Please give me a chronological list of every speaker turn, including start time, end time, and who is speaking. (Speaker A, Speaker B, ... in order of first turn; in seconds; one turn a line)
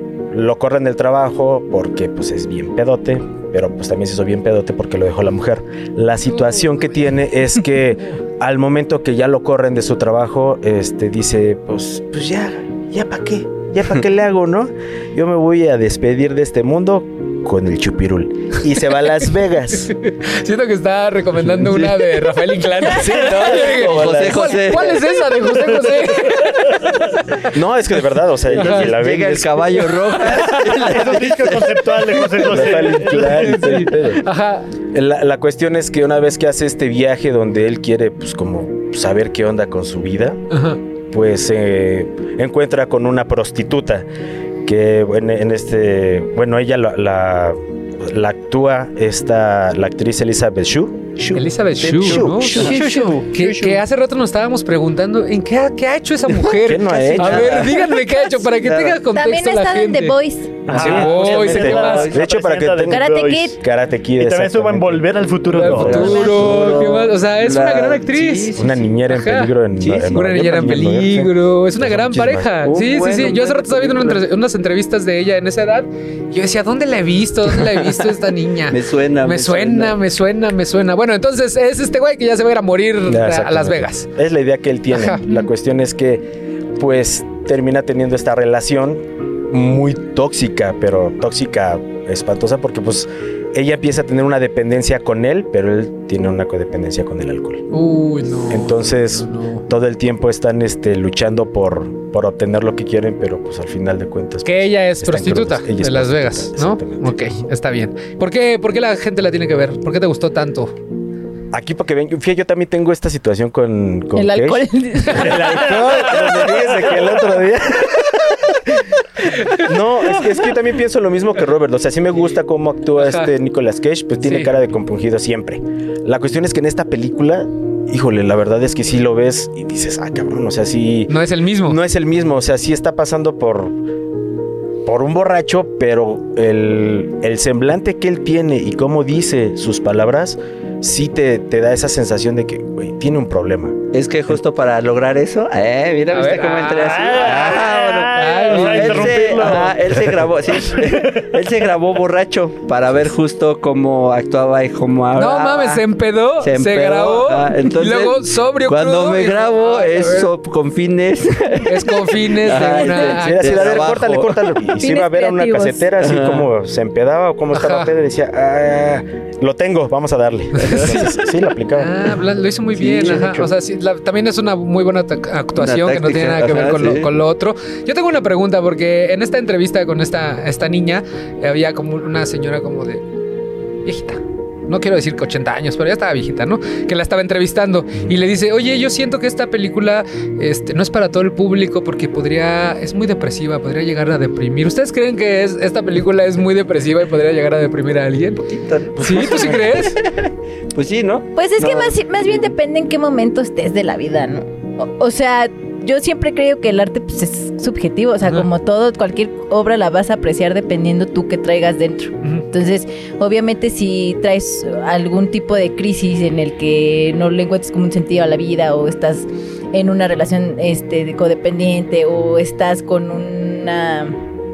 Speaker A: 0.3-19.9
Speaker B: 19.9-27.5
Speaker A: 22.9-25.0
Speaker C: 23.0-25.0
Speaker A: 27.4-29.9
Speaker B: 28.5-28.9
Speaker C: 28.5-31.6
Speaker B: 29.9-31.3
Speaker D: 30.8-33.7
Speaker B: 32.1-34.7
Speaker A: 32.4-34.2
Speaker A: 34.9-40.4
Speaker B: 40.5-40.8
Speaker A: 41.1-44.0
Speaker A: 44.6-52.8
Speaker B: 51.3-60.2
Speaker C: 52.0-52.7
Speaker D: 52.5-53.8
Speaker A: 56.6-57.7
Speaker C: 56.7-57.9
Speaker E: 57.7-58.3
Speaker C: 58.6-59.0
Speaker E: 59.1-60.6
Speaker D: 60.7-63.5
Speaker A: 60.7-65.1
Speaker B: 60.7-62.1
Speaker C: 60.7-62.2
Speaker E: 62.9-63.6
Speaker D: 64.2-66.3
Speaker B: 65.5-68.5
Speaker C: 65.6-68.8
Speaker E: 65.9-66.8
Speaker A: 68.5-72.5
Speaker B: 69.1-69.5
Speaker C: 69.8-70.1
Speaker B: 70.1-84.0
Speaker C: 72.6-74.2
Speaker C: 78.7-80.0
Speaker A: 83.1-97.7
Speaker B: 97.7-99.6
Speaker A: 98.5-107.3
Speaker B: 104.4-110.7
Speaker A: 111.5-133.8
Speaker E: 114.1-115.8
Speaker B: 115.0-115.4
Speaker D: 115.2-117.4
Speaker B: 123.0-123.3
Speaker B: 124.2-124.5
Speaker B: 131.1-131.8
Speaker A: 134.8-143.8
Speaker C: 143.9-155.8
Speaker B: 146.1-149.2
Speaker D: 146.8-151.2
Speaker B: 155.2-160.3
Speaker C: 156.4-164.4
Speaker B: 161.7-164.1
Speaker A: 162.5-171.9
Speaker E: 164.8-165.8
Speaker C: 166.0-166.5
Speaker B: 167.5-167.9
Speaker B: 170.5-171.2
Speaker B: 171.7-183.0
Speaker A: 172.8-173.5
Speaker C: 175.6-177.1
Speaker B: 183.8-200.0
Speaker C: 198.5-202.0
Speaker A: 199.1-199.7
Speaker E: 201.3-224.2